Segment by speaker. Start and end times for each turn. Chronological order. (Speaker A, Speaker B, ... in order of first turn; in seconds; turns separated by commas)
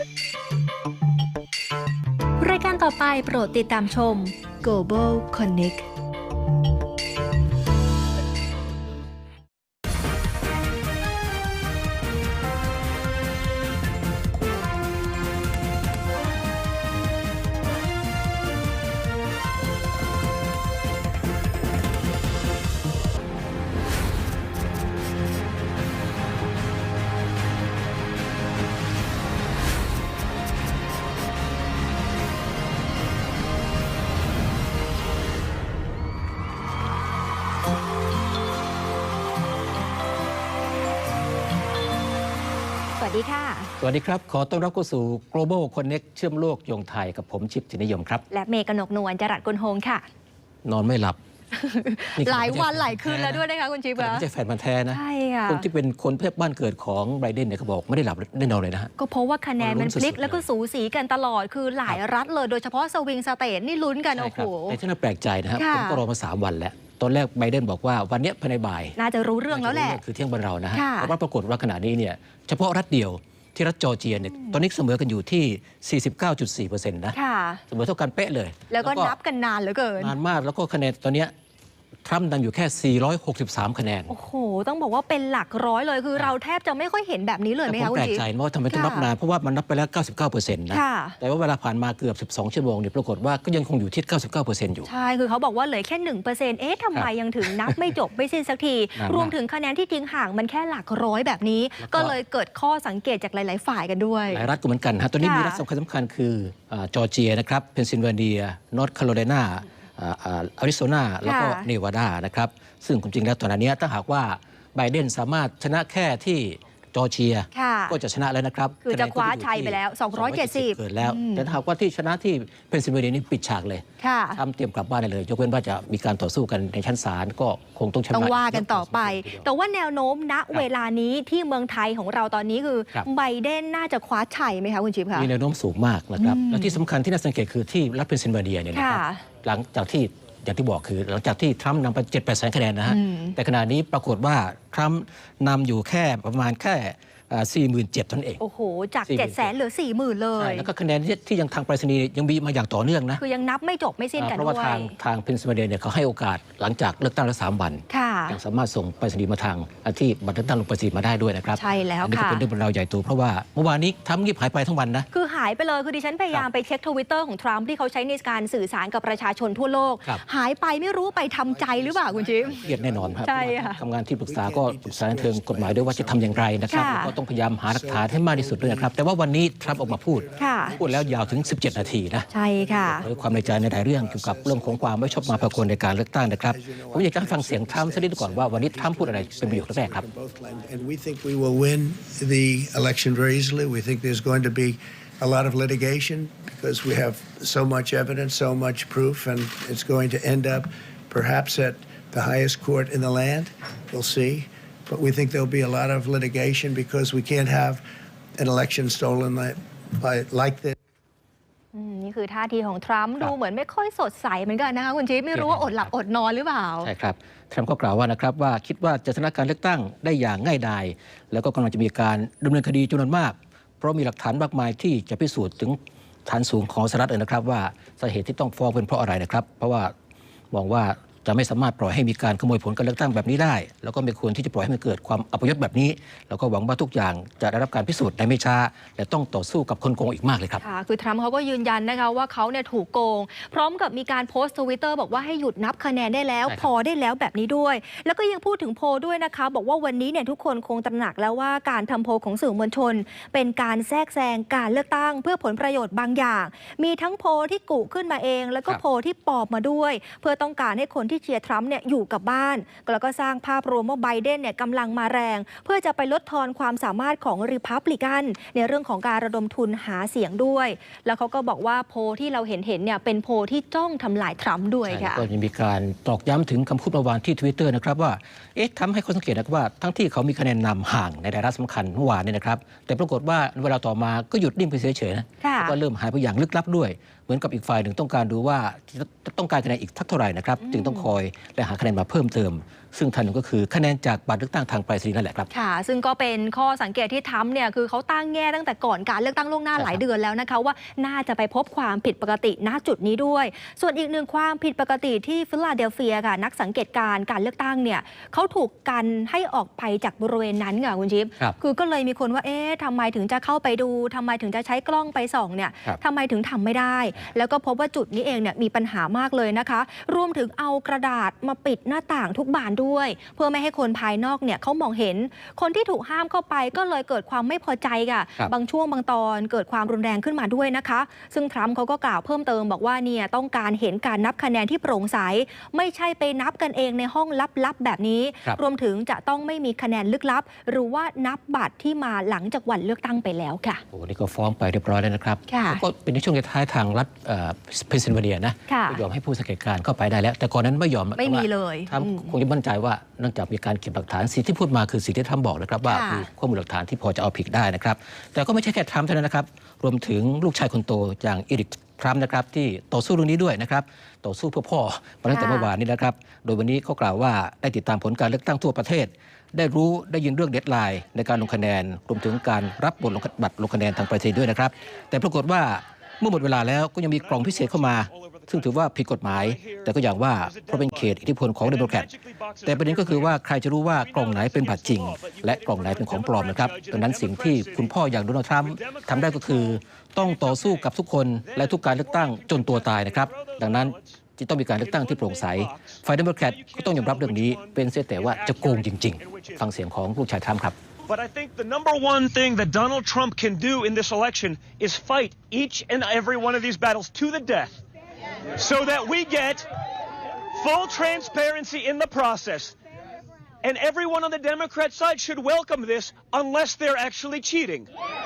Speaker A: 2.4-5.8, Speaker A: 43.0-43.7, Speaker B: 43.8-48.2, Speaker A: 48.3-50.0, Speaker B: 50.6-51.2, Speaker A: 51.5-54.2, Speaker B: 52.1-53.4, Speaker B: 54.0-58.9, Speaker A: 54.9-55.6, Speaker A: 59.0-64.8, Speaker B: 59.6-60.4, Speaker B: 64.1-69.0, Speaker A: 65.6-66.0, Speaker A: 69.0-70.0, Speaker B: 69.5-77.1, Speaker A: 70.7-71.1, Speaker A: 74.3-74.6, Speaker A: 77.1-77.6, Speaker B: 77.7-79.2, Speaker A: 78.7-80.1, Speaker B: 80.0-81.3, Speaker B: 82.0-84.1, Speaker A: 84.1-89.1, Speaker B: 87.7-94.9, Speaker A: 90.7-91.2, Speaker A: 94.8-104.5, Speaker B: 96.9-97.9, Speaker B: 99.0-99.3, Speaker B: 101.8-102.2, Speaker B: 104.3-129.5, Speaker A: 105.2-105.6, Speaker A: 111.2-111.7, Speaker A: 117.5-118.0, Speaker A: 118.8-121.5, Speaker A: 124.0-124.4, Speaker A: 128.1-135.3, Speaker B: 135.1-148.4, Speaker A: 136.2-136.8, Speaker A: 138.7-139.2, Speaker A: 142.9-143.4, Speaker A: 148.4-150.7, Speaker B: 149.1-149.5, Speaker B: 150.4-153.2, Speaker A: 153.2-154.9, Speaker B: 154.2-165.1, Speaker A: 157.9-158.4, Speaker A: 161.6-162.4, Speaker A: 165.1-172.6, Speaker C: 171.4-207.8, Speaker B: 172.6-182.3, Speaker A: 173.2-173.8, Speaker A: 176.7-177.1, Speaker A: 180.4-180.8, Speaker A: 182.3-183.1, Speaker B: 183.0-190.0, Speaker C: 208.3-210.8, Speaker A: 211.7-216.9, Speaker B: 215.3-215.9, Speaker B: 216.8-229.9, Speaker B: 230.5-240.6, Speaker A: 240.6-275.2, Speaker B: 274.9-295.5, Speaker A: 285.4-285.8, Speaker A: 290.6-291.1, Speaker A: 295.5-343.8, Speaker B: 299.8-300.0, Speaker B: 343.9-382.1, Speaker A: 345.5-345.8, Speaker A: 348.7-349.0, Speaker A: 351.2-352.3, Speaker A: 355.9-356.3, Speaker A: 365.3-365.7, Speaker D: 377.1-388.0, Speaker B: 382.6-400.8, Speaker D: 388.6-394.2, Speaker D: 394.8-399.6, Speaker D: 401.1-407.8, Speaker D: 408.6-409.7, Speaker D: 410.6-412.7, Speaker D: 413.6-417.9